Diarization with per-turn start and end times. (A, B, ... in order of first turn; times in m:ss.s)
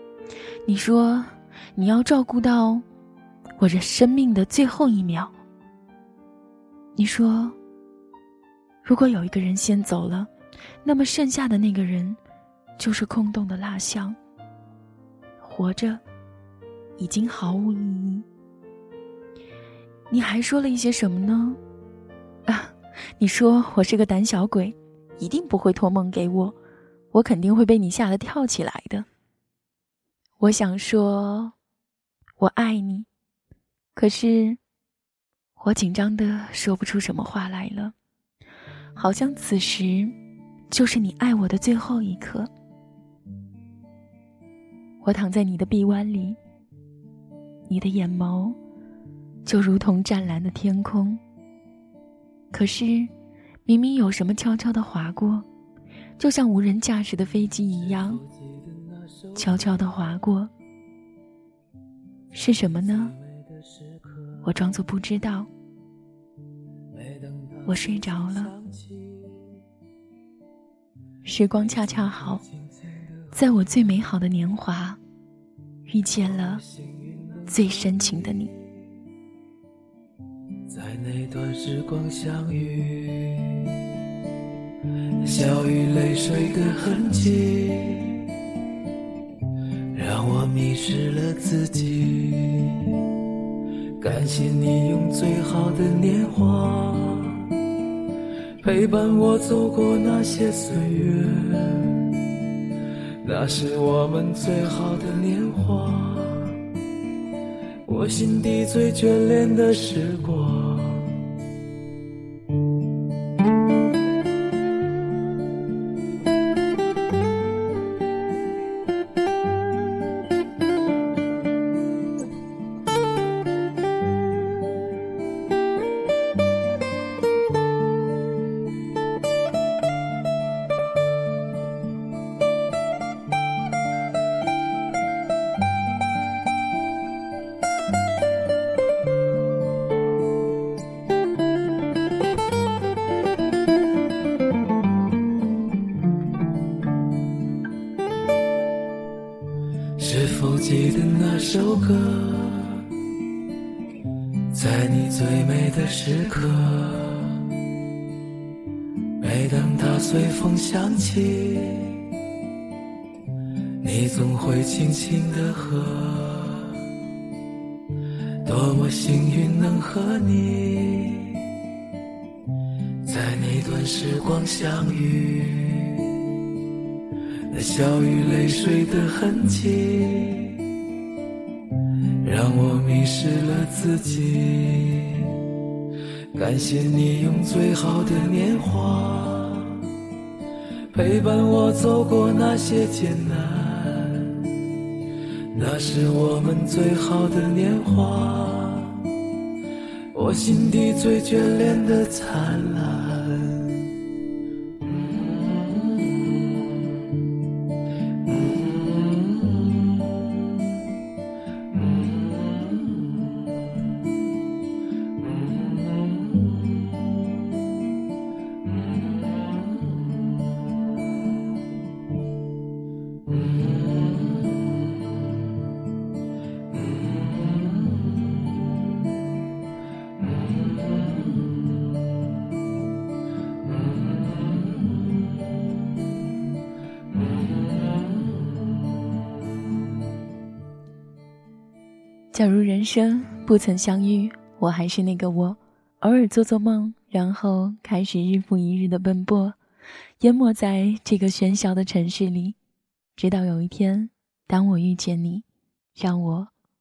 0:00.6-0:02.8 A
0:03.6-0:05.3 A
0:07.0-0:07.6 A
0:08.8-0:10.3 A
0:10.8-0:12.2 A
0:12.8-0:14.2 A
0:15.4-0:16.0 A
0:17.0-0:18.3 A
0:20.1-0:21.6 A
0:22.4-0:26.6 A
0:27.1-0:29.0 A
0:30.4-0:31.5 A
0:32.4-0:33.1 A
0:33.9-0:34.6 A
0:35.6-0:37.9 A
0:39.0-0:40.1 A
0:40.7-0:42.5 A
0:45.0-0:46.4 A
0:47.6-0:48.6 A
0:49.4-0:51.2 A
0:52.5-0:53.1 A
0:53.6-0:55.4 A
0:56.2-0:58.2 A
0:58.2-0:59.3 B
0:59.3-1:00.5 A
1:02.3-1:03.2 A
1:03.2-1:04.4 B
1:04.4-1:05.5 A
1:06.9-1:09.6 B
1:07.6-1:08.6 A
1:11.2-1:12.4 A
1:13.3-1:15.0 A
1:15.8-1:16.6 A
1:16.7-1:17.5 B
1:17.4-1:18.5 A
1:20.6-1:23.9 B
1:24.9-1:28.4 B
1:29.8-1:33.2 B
1:34.0-1:37.7 B
1:38.6-1:42.3 B
1:43.2-1:46.8 B
1:47.8-1:51.4 B
2:30.0-2:33.0 B
2:34.4-2:37.6 B
2:39.2-2:42.2 B
2:43.6-2:47.1 B
2:48.2-2:51.6 B
2:53.0-2:56.4 B
2:57.3-3:00.8 B
3:01.8-3:05.6 B
3:06.3-3:10.0 B
3:10.8-3:14.7 B
3:15.3-3:19.4 B
3:19.9-3:24.1 B
4:02.3-4:09.6 A
4:10.2-4:12.6 A
4:13.2-4:16.5 A